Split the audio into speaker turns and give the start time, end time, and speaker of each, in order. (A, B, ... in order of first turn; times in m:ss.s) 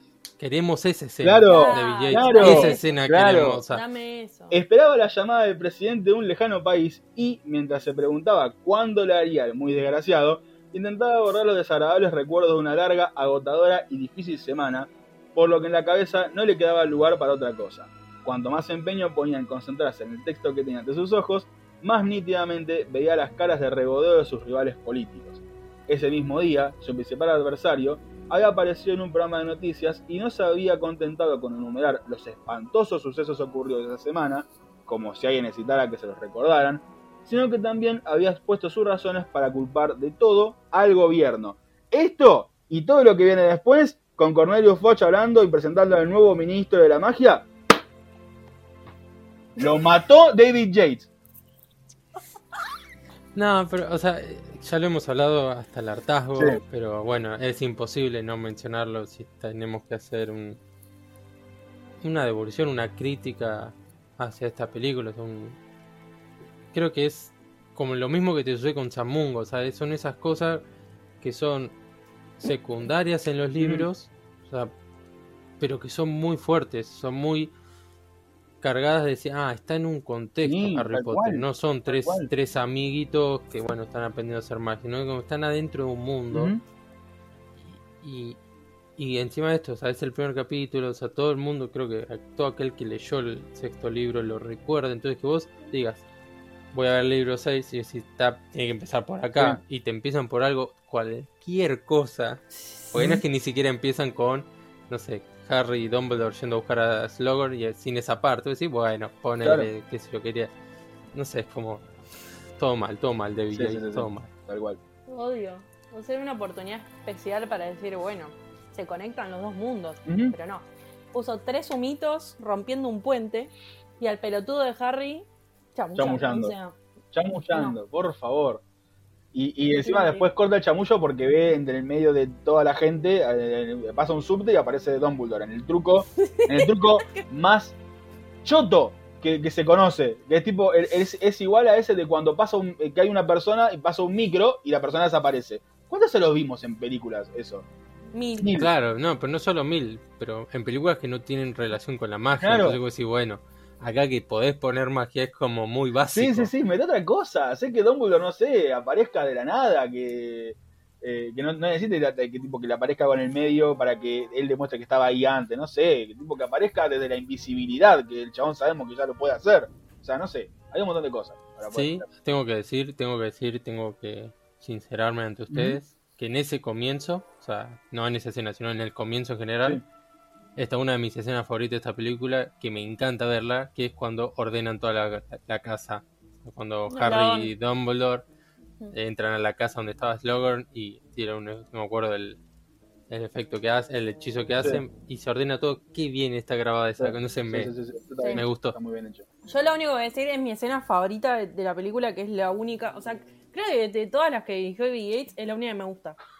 0:00.4-0:03.8 A
0:01.2-0:03.6 B
0:01.5-0:03.0 C
0:03.7-0:04.6 C
0:04.5-0:47.5 B
0:49.6-0:51.1 B
0:53.3-1:00.6 A
0:56.4-0:56.6 B
1:02.0-1:05.6 A
1:06.7-1:10.6 A
1:11.2-1:11.7 A
1:12.4-1:14.7 A
1:13.6-1:13.9 B
1:15.6-1:17.5 A
1:18.6-1:26.5 A
1:20.4-1:22.3 B
1:26.3-1:26.6 B
1:27.6-1:28.4 A
1:29.0-1:36.0 A
1:36.7-1:50.5 A
1:42.9-1:43.2 B
1:49.4-1:49.7 B
1:51.1-1:51.8 A
1:52.6-1:54.3 A
1:53.5-1:54.8 B
1:55.1-2:06.8 C
2:00.0-2:00.4 B
2:06.0-2:06.5 B
2:07.1-2:08.6 B
2:07.5-2:07.8 C
2:09.3-2:17.8 B
2:09.8-2:10.2 C
2:16.2-2:17.2 C
2:18.4-2:27.7 B
2:28.1-2:28.6 C
2:28.4-2:28.7 B
2:28.5-2:36.5 A
2:32.4-2:32.8 B
2:36.1-2:52.0 B
2:51.7-2:59.8 A
2:55.5-2:55.8 B
3:00.6-3:08.2 A
3:06.9-3:07.5 C
3:08.9-3:12.4 A
3:13.1-3:17.7 A
3:17.0-3:19.2 B
3:18.3-3:18.8 A
3:19.4-3:26.2 C